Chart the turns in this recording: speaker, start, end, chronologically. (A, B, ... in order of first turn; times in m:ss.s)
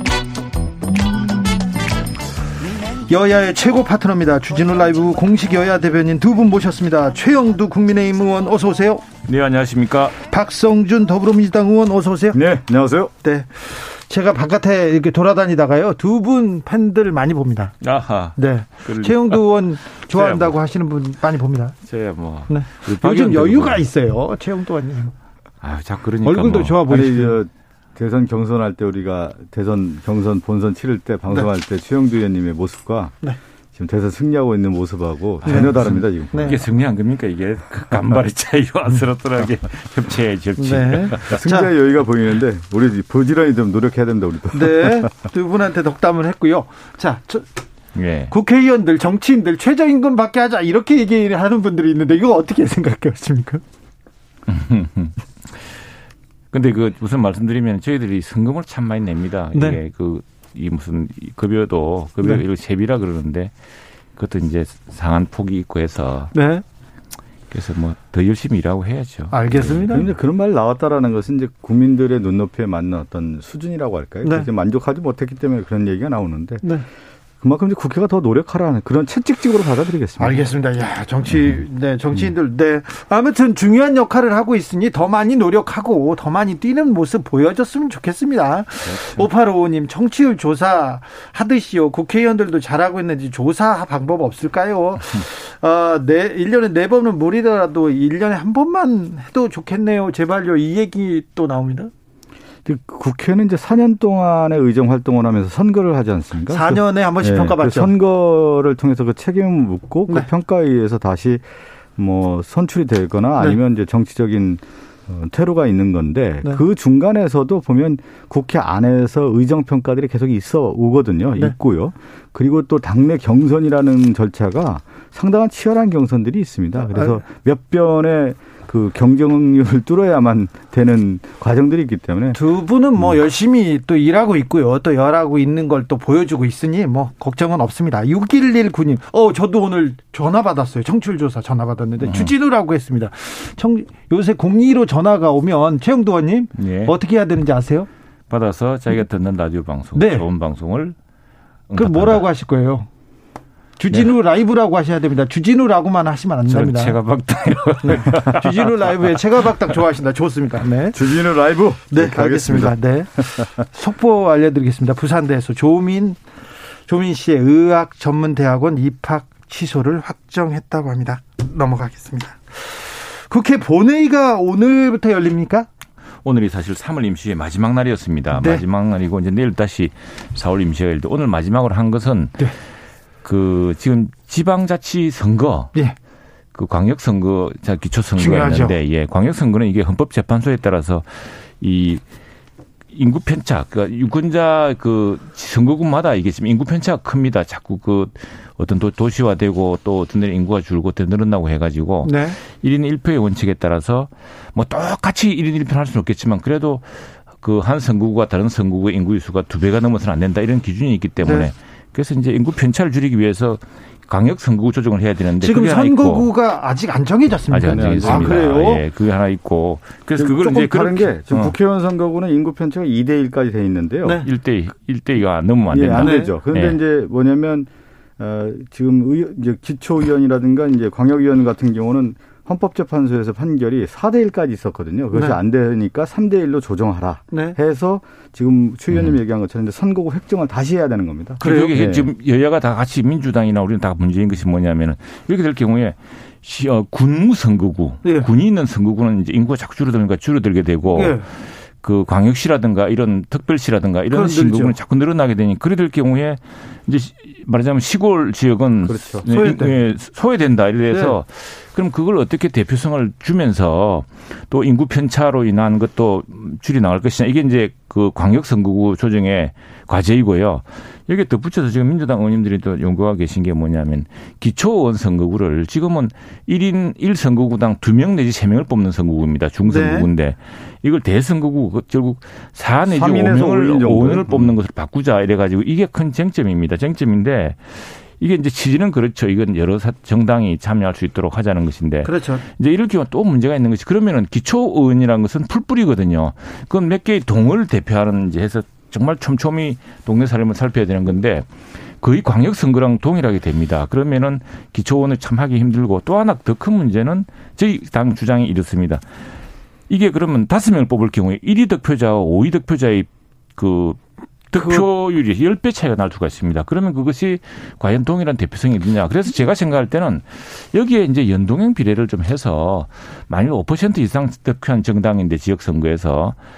0:03.1-0:09.1 A
0:09.2-0:10.2 B
0:10.2-0:12.4 A
0:12.3-0:13.1 C
0:13.2-0:17.8 A
0:17.8-0:19.4 B
0:18.4-0:21.8 A
0:20.0-0:20.6 B
0:21.9-0:23.8 B
0:22.5-0:25.2 A
0:25.6-0:26.8 B
0:26.2-0:27.4 A
0:26.8-0:33.2 C
0:33.8-0:36.6 C
0:35.4-0:36.6 A
0:35.4-0:41.4 B
0:40.6-0:41.7 A
0:41.3-0:45.1 C
0:44.5-0:47.5 A
0:48.0-0:48.3 B
0:48.3-0:53.6 A
0:54.5-0:55.7 B
0:56.5-1:03.5 B
0:59.5-0:59.8 A
1:04.2-1:06.3 B
1:06.3-1:06.6 A
1:07.5-1:10.1 B
1:09.3-1:10.1 A
1:09.9-1:16.6 C
1:14.2-1:14.5 A
1:17.4-1:20.4 C
1:20.2-1:41.9 A
1:28.8-1:29.2 B
1:42.7-1:51.4 C
1:46.5-1:48.0 A
1:52.0-2:12.4 C
2:06.8-2:07.2 A
2:12.4-2:27.9 A
2:22.0-2:22.3 B
2:26.6-2:26.9 B
2:28.3-2:31.0 B
2:30.0-2:30.3 A
2:31.7-2:32.3 B
2:31.8-2:32.9 A
2:33.8-2:37.0 A
2:36.5-2:38.7 B
2:37.8-2:41.1 A
2:40.9-2:43.6 C
2:41.9-2:46.2 A
2:46.9-2:55.7 A
2:56.2-3:02.4 B
2:58.3-2:58.6 A
3:03.2-3:05.7 B
3:06.5-3:12.0 B
3:08.2-3:08.8 A
3:12.9-3:36.3 B
3:22.0-3:22.4 A
3:31.2-3:31.5 A
3:35.4-3:38.8 A
3:37.5-3:41.6 B
3:37.7-3:38.8 C
3:40.2-3:44.2 C
3:44.2-3:46.8 B
3:45.7-3:47.7 C
3:46.0-3:46.4 A
3:48.2-4:02.1 C
3:55.1-3:55.4 A
3:57.3-3:57.6 A
3:58.9-3:59.2 B
4:01.4-4:11.3 B
4:01.4-4:01.8 A
4:08.0-4:08.3 A
4:10.9-4:11.2 A
4:11.8-5:09.0 B
4:14.1-4:14.8 A
4:18.9-4:19.2 C
4:19.3-4:19.8 A
4:20.9-4:21.2 A
4:39.7-4:40.1 A
4:42.9-4:44.5 C
4:52.0-4:52.4 A
5:09.9-5:14.0 B
5:14.5-5:26.4 B